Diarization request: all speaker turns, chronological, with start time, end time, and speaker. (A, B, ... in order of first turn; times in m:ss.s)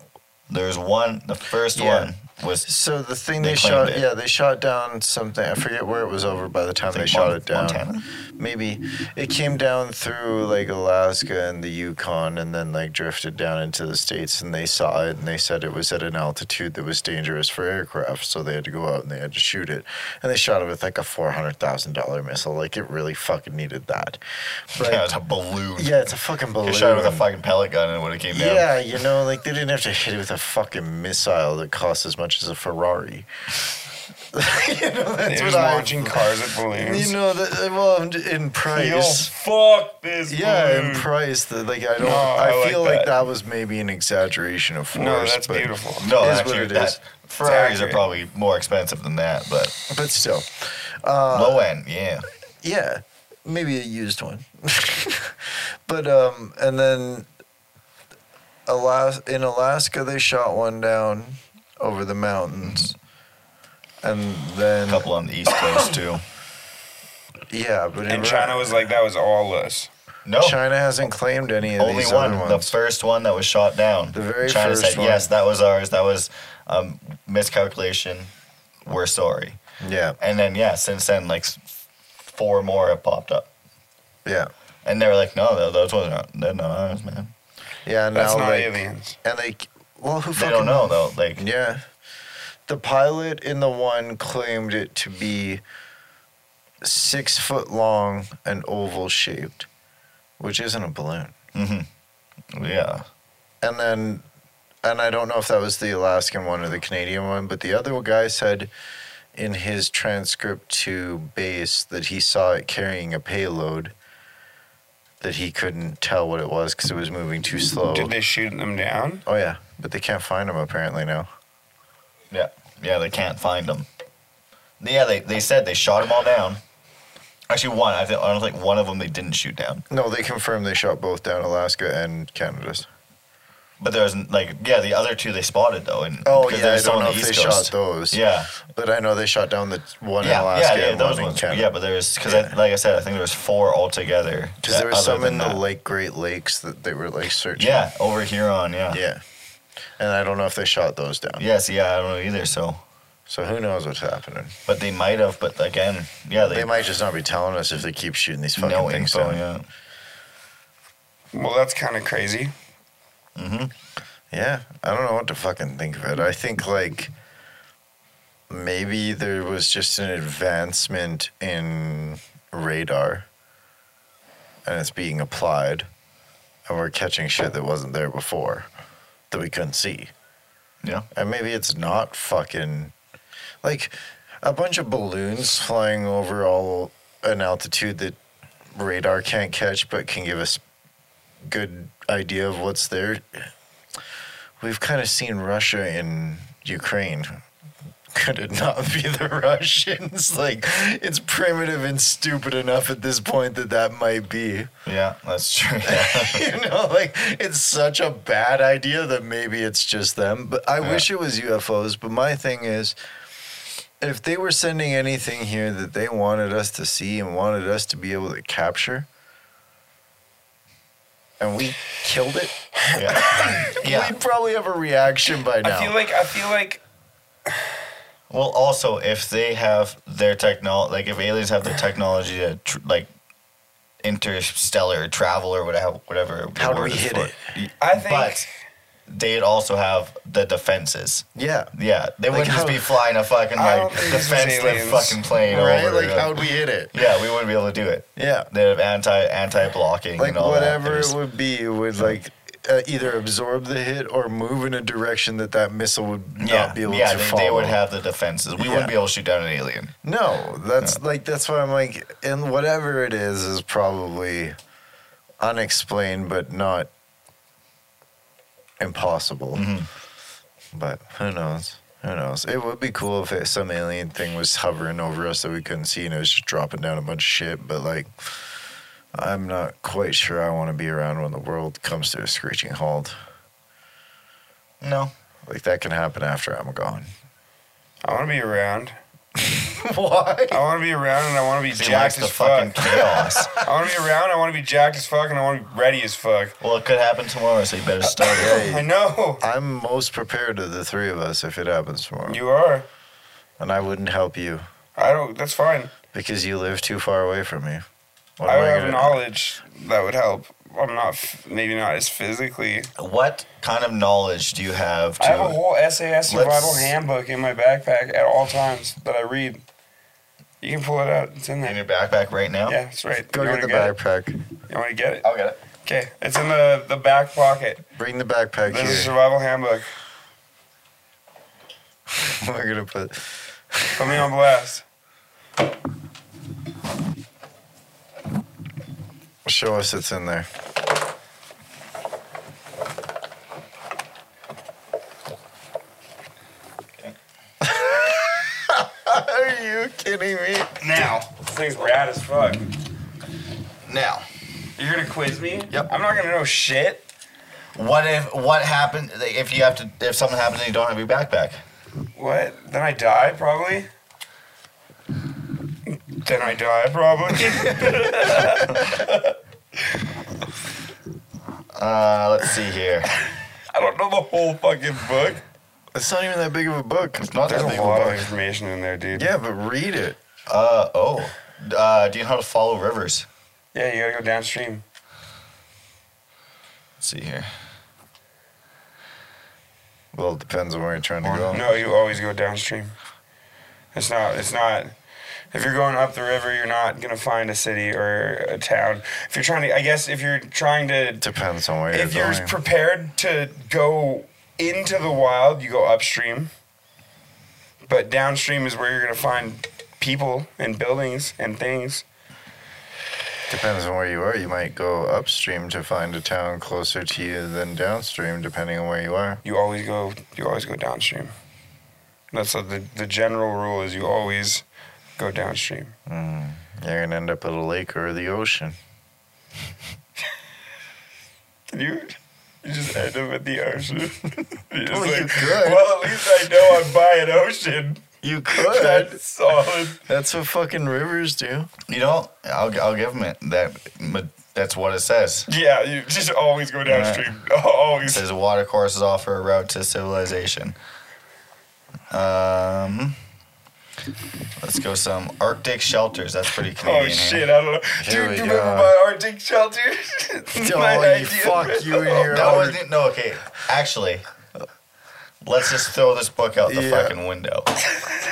0:00.5-0:02.7 A
0:01.7-0:02.1 B
0:02.6-0:25.0 B
0:03.4-0:04.0 A
0:06.9-0:08.0 A
0:24.8-0:26.0 A
0:25.8-0:27.2 B
0:26.6-0:28.7 A
0:28.3-0:33.3 B
0:34.3-0:39.3 B
0:35.2-0:37.1 C
0:38.7-0:41.1 C
0:40.3-0:47.0 B
0:42.0-0:43.1 C
0:44.9-0:46.1 C
0:46.0-0:49.8 A
0:47.4-0:48.0 C
0:49.9-0:51.6 B
0:51.3-0:52.3 A
0:52.6-0:57.3 B
0:58.7-1:02.9 B
1:02.6-1:02.9 A
1:04.0-1:05.1 B
1:04.8-1:06.2 A
1:07.5-1:08.8 B
1:08.1-1:09.9 C
1:10.2-1:10.6 A
1:10.4-1:12.7 B
1:11.8-1:18.3 A
1:14.1-1:15.3 B
1:18.8-1:19.6 A
1:19.8-1:20.2 B
1:20.2-1:21.6 A
1:22.2-1:23.5 A
1:24.2-1:24.5 B
1:24.8-1:27.3 A
1:27.8-1:31.8 B
1:28.1-1:29.2 C
1:30.3-1:31.4 A
1:32.7-1:35.6 B
1:36.8-1:39.7 B
1:40.4-1:41.3 B
1:41.5-1:41.9 A
1:42.5-1:43.0 A
1:43.6-1:44.2 B
1:44.8-1:48.7 B
1:49.3-1:53.9 B
1:55.2-1:58.1 B
1:57.9-1:59.2 C
1:59.2-2:01.3 B
2:02.3-2:03.9 A
2:04.8-2:06.6 A
2:07.5-2:09.8 A
2:09.9-2:12.9 B
2:13.8-2:18.5 A
2:16.2-2:21.7 B
2:20.2-2:25.6 A
2:22.2-2:22.6 B
2:24.6-2:27.9 B
2:27.6-2:29.0 A
2:28.9-2:29.2 B
2:30.0-2:31.4 B
2:31.4-2:32.8 A
2:33.3-2:34.6 B
2:34.7-2:36.7 A
2:36.4-2:39.4 B
2:38.6-2:39.6 A
2:41.3-2:42.5 C
2:43.4-2:43.7 A
2:44.3-2:47.1 B
2:48.5-2:53.2 B
2:54.6-2:55.9 B
2:56.7-2:58.7 B
2:59.3-3:00.1 B
3:01.1-3:02.9 B
3:03.6-3:08.2 B
3:08.7-3:10.6 B
3:11.4-3:13.5 B
3:14.6-3:17.4 B
3:18.1-3:24.7 B
3:24.8-3:26.5 A
3:25.8-3:33.0 B
3:30.8-3:31.0 A
3:34.0-3:39.1 B
3:41.4-3:46.0 B
3:42.9-3:44.1 A
3:45.6-3:46.8 C
3:48.3-3:53.1 A
3:54.0-3:58.5 A
3:56.6-3:57.4 B
3:57.8-3:58.5 C
3:59.1-4:06.4 A
4:01.3-4:01.7 B
4:02.3-4:03.0 B
4:03.6-4:05.2 C
4:05.4-4:06.9 B
4:06.9-4:11.2 A
4:08.2-4:08.5 B
4:10.2-4:17.8 B
4:16.4-4:19.9 A
4:18.6-4:18.9 B
4:20.0-4:24.6 B
4:25.4-4:26.9 B
4:28.8-4:29.7 B
4:29.5-4:29.9 A
4:30.7-4:38.6 B
4:39.1-4:43.2 B
4:44.8-4:45.1 A
4:45.4-4:47.1 B
4:48.0-4:49.0 C
4:49.4-4:50.6 B
4:50.5-4:53.0 C
4:51.8-4:53.6 A
4:53.1-4:53.5 B
4:53.6-4:56.5 C
4:56.6-4:58.6 A
4:58.0-4:59.4 C
4:58.3-4:58.9 B
4:59.4-5:02.4 B
5:02.3-5:02.9 C
5:03.6-5:04.6 B
5:05.0-5:05.9 C
5:06.1-5:07.8 B
5:08.4-5:09.2 B
5:08.4-5:12.9 C
5:13.0-5:15.6 A
5:15.2-5:19.6 C
5:16.3-5:16.9 A
5:20.6-5:21.8 C
5:21.6-5:22.8 A
5:22.7-5:24.0 C
5:23.3-5:24.3 B
5:24.7-5:25.3 C
5:25.2-5:25.6 A
5:25.8-5:27.8 C
5:28.0-5:29.1 B
5:28.6-5:29.9 C
5:32.1-5:34.2 B
5:33.9-5:34.8 C
5:39.4-5:40.5 B
5:47.6-5:50.8 B
5:50.8-5:51.3 A
5:51.3-5:52.7 C
5:53.8-5:54.3 A
5:54.8-5:57.0 C
5:57.7-6:01.6 A
6:02.2-6:03.9 C
6:06.1-6:10.0 C
6:11.7-6:13.1 A
6:13.7-6:15.4 C
6:15.9-6:18.2 B
6:17.2-6:18.2 A
6:17.4-6:19.3 C
6:19.1-6:20.2 B
6:20.5-6:23.3 A
6:23.7-6:24.8 C
6:27.0-6:27.5 A
6:30.1-6:31.6 B
6:31.2-6:31.5 A
6:31.5-6:33.0 C
6:33.9-6:34.9 C
6:35.5-6:41.2 C
6:41.2-6:42.6 B
6:41.9-6:46.5 C
6:47.8-6:52.0 C
6:53.5-6:59.4 B
6:59.4-7:01.3 C
7:02.3-7:04.6 C
7:05.2-7:05.9 C
7:06.1-7:08.8 B
7:11.7-7:20.0 C
7:14.9-7:16.3 B
7:18.2-7:19.2 B
7:20.0-7:21.7 B
7:21.9-7:25.5 A
7:25.5-7:28.2 C
7:26.8-7:27.3 A
7:28.0-7:30.8 A
7:32.1-7:33.2 A
7:34.6-7:37.5 A
7:36.8-7:42.4 C
7:38.0-7:38.9 B
7:40.5-7:42.8 B
7:42.2-7:44.2 A
7:45.4-7:47.8 A
7:46.7-7:47.2 B